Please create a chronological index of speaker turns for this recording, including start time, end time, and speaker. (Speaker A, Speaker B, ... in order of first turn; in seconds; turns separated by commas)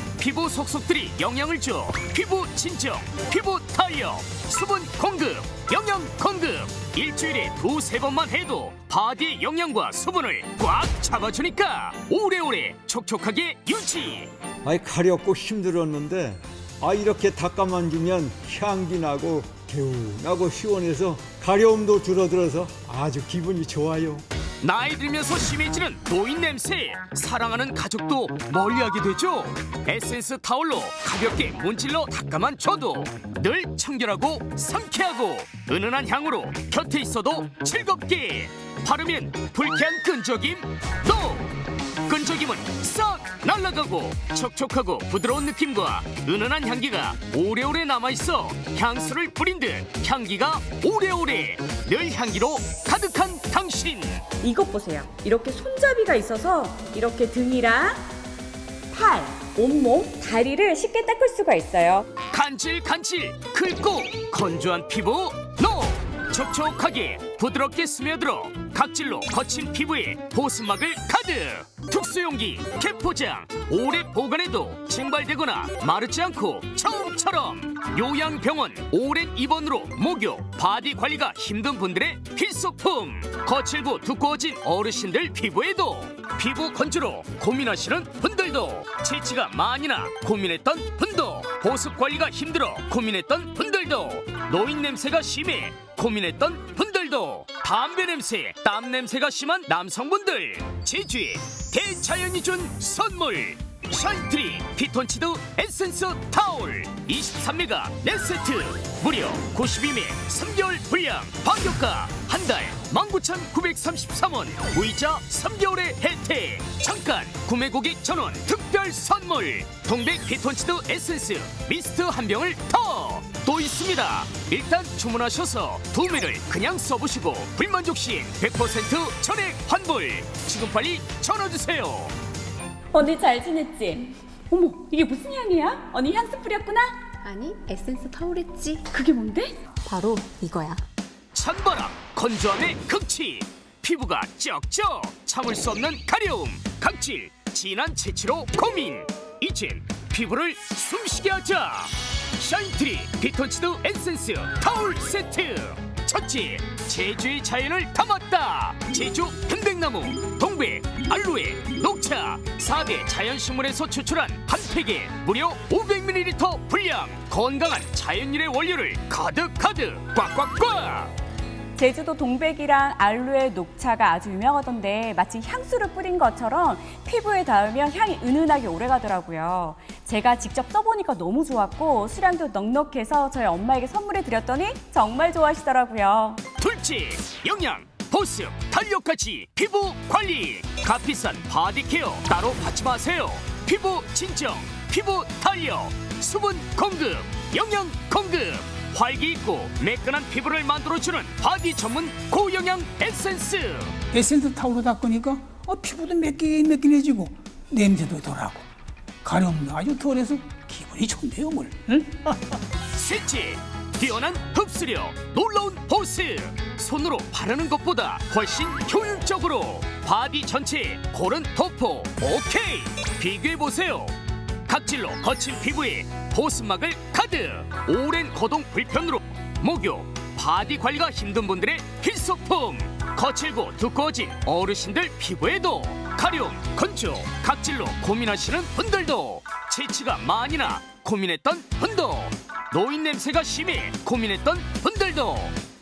Speaker A: 0.2-14.3, Speaker B: 14.6-24.2, Speaker A: 24.6-54.2, Speaker C: 54.4-58.0, Speaker C: 58.9-62.1, Speaker A: 62.3-132.1, Speaker C: 132.9-137.0, Speaker D: 137.2-138.9, Speaker C: 138.9-139.6, Speaker D: 139.8-140.8, Speaker A: 141.3-171.1, Speaker C: 171.8-186.4, Speaker A: 186.6-204.0, Speaker E: 204.1-208.7, Speaker E: 209.2-212.4, Speaker A: 212.9-224.2, Speaker A: 224.7-245.5